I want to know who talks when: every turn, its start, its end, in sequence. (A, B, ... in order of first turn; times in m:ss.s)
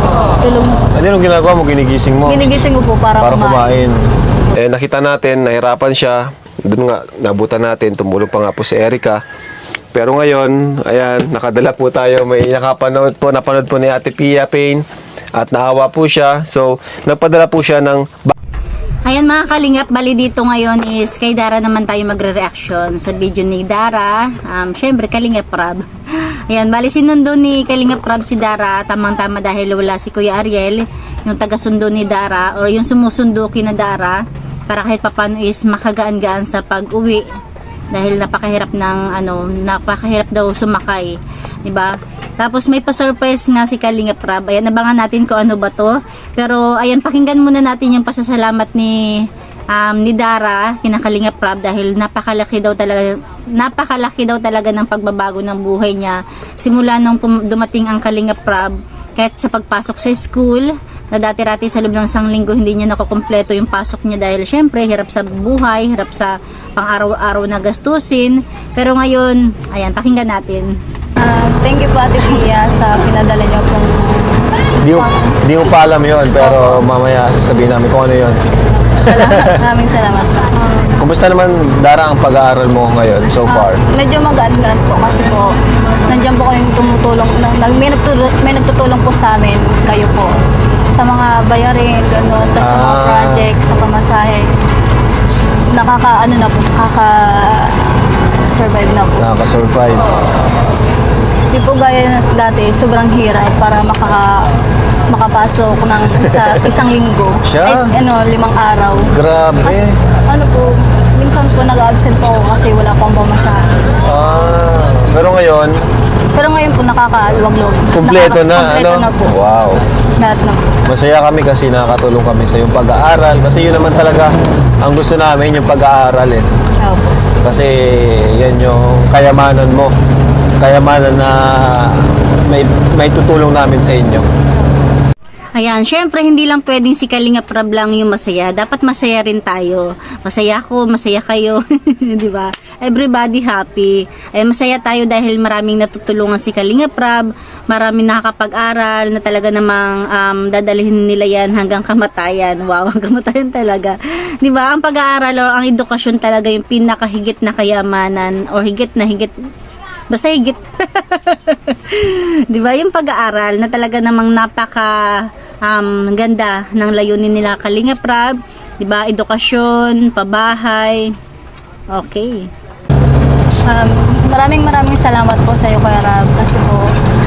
0:00.4-0:00.9 A
0:00.9-0:02.5 B
0:02.3-0:03.7 A
0:03.2-0:04.0 B
0:04.5-0:09.2 B
0:09.9-0:14.8 B
0:15.4-0:18.4 B
0:19.1-0:25.8 C
0:26.5-0:37.2 C
0:37.9-1:10.7 C
1:11.2-1:15.4 A
1:14.8-1:18.4 B
1:16.4-1:16.8 A
1:18.8-1:20.9 A
1:19.0-1:19.6 B
1:21.0-1:23.8 B
1:23.5-1:25.6 A
1:26.0-1:30.3 A
1:30.9-1:34.5 A
1:32.6-1:33.5 B
1:35.7-1:39.3 A
1:39.2-1:40.2 B
1:41.5-1:44.4 A
1:45.1-1:49.1 A
1:46.1-1:46.5 B
1:47.4-1:48.0 B
1:49.1-1:49.9 B
1:49.6-1:53.7 A
1:54.0-1:55.7 B
1:56.3-1:59.3 A
1:57.9-1:59.8 B
2:00.2-2:00.8 A
2:00.9-2:06.5 B
2:06.8-2:07.2 A
2:07.4-2:09.9 B
2:10.6-2:14.3 B
2:15.6-2:39.3 C
2:40.1-2:51.1 C
2:51.9-2:52.5 C
2:53.7-2:56.9 A